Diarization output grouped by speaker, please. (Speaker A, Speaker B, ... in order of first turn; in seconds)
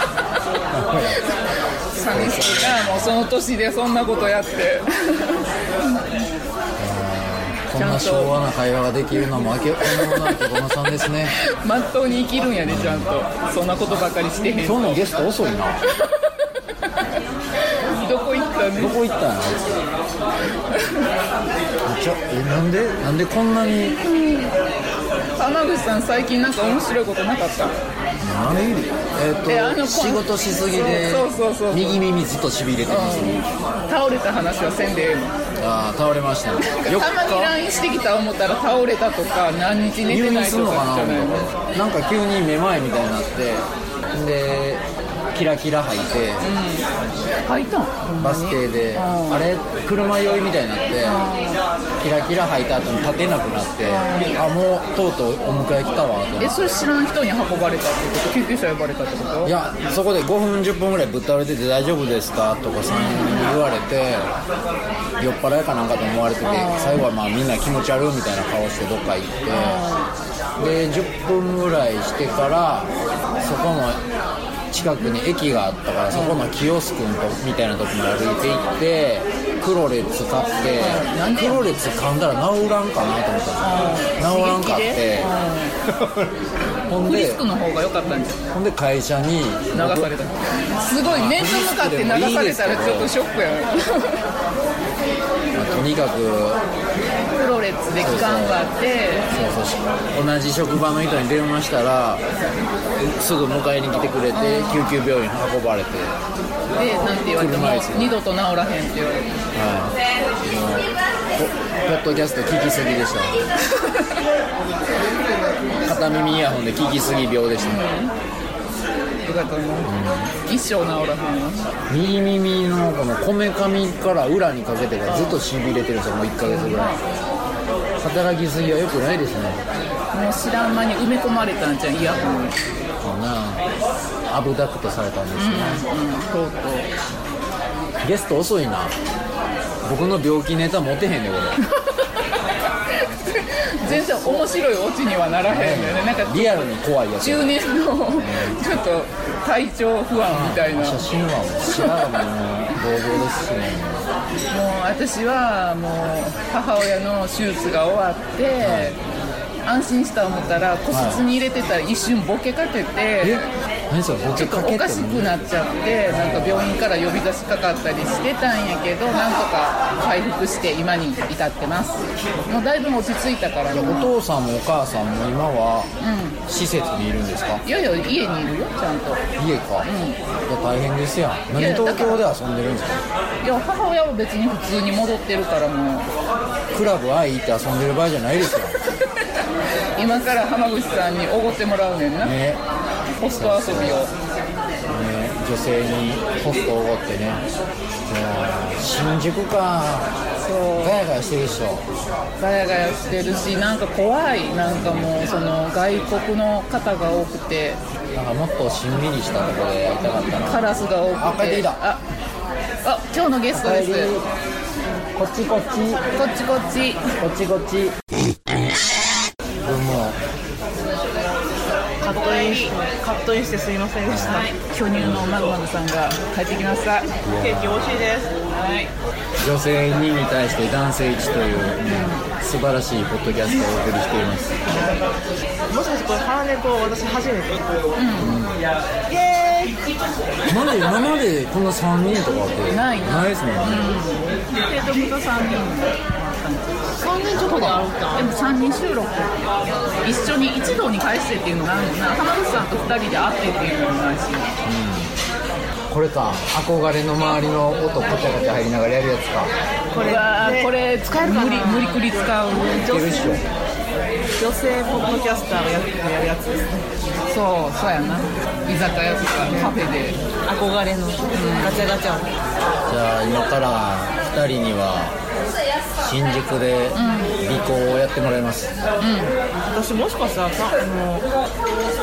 Speaker A: 0.7-1.2, 2.0-3.2, 6.8-11.4, 12.7-13.2, 14.6-15.8, 18.7-19.9, 21.8-24.0, 28.2-33.5, 35.6-37.5, 40.0-46.5, 48.2-51.2, 52.0-56.7, 59.4-64.3, 65.2-69.8, 70.6-74.0, 74.7-85.3, 85.9-86.3, 86.8-87.4, 88.5-90.1, 91.0-93.1, 95.5-96.6, 98.0-98.7, 99.3-102.2, 103.0-106.2, 107.1-108.2, 109.5-113.5, 115.8-117.9, 119.8-120.3, 121.9-127.0, 128.0-129.6, 132.1-132.4, 133.0-133.6, 134.3-135.8, 138.0-138.9, 139.8-141.6, 143.8-144.5, 145.5-147.6, 148.1-148.6, 150.2-154.1, 158.6-159.0, 160.9-161.2, 163.2-165.3, 166.1-166.7, 173.7-175.9, 176.4-177.6, 179.4-179.9, 180.5-183.0, 186.7-188.8, 192.2-192.6, 193.3-194.1, 194.9-197.4, 198.1-200.1, 200.8-201.8, 204.7-205.3, 208.1-210.6, 211.1-211.8, 213.5-214.2, 215.1-216.0, 217.2-217.9, 219.6-220.2, 224.1-224.4, 225.0-225.3, 227.2-228.0, 229.4-234.6, 238.2-238.7, 240.4-243.9, 247.3-247.9, 254.6-255.2, 255.9-259.5, 262.6-263.4, 272.9-275.2, 276.0-278.7
Speaker B: 0.9-1.4, 1.9-6.0, 7.7-8.3, 9.9-10.4, 11.4-15.0, 17.8-19.0, 20.7-21.1, 24.0-24.6, 25.4-27.7, 29.5-32.0, 32.9-35.4, 36.7-41.5, 46.4-46.9, 47.4-49.4, 51.0-51.6, 53.9-54.4, 56.4-59.5, 62.9-63.5, 66.4-67.0, 69.5-70.1, 76.1-76.4, 80.8-81.7, 83.6-85.8, 86.9-88.4, 89.7-94.2, 97.3-99.3, 104.3-104.8, 106.7-109.3, 113.8-114.1, 117.6-118.1, 119.2-119.9, 120.4-121.7, 125.0-125.4, 126.4-127.0, 130.1-132.6, 135.3-136.9, 143.2-151.0, 151.7-152.1, 154.5-159.0, 159.6-163.4, 164.3-174.1, 176.0-176.4, 177.6-179.2, 179.8-180.2, 181.5-182.2, 183.4-186.1, 189.9-192.3, 193.1-194.1, 200.4-201.0, 202.4-207.8, 210.3-212.0, 212.8-214.1, 216.2-217.1, 222.2-222.7, 224.3-227.1, 228.5-228.9, 231.8-232.2, 237.9-238.4, 242.7-246.8, 248.1-254.5, 260.0-262.9, 267.3-270.2, 271.3-271.9, 276.9-277.4, 279.0-279.3
Speaker C: 222.0-224.5, 227.4-228.3, 235.7-237.6, 239.1-239.8, 247.0-248.3, 259.9-263.4, 264.3-266.9, 269.5-269.8, 270.4-272.3, 279.5-281.2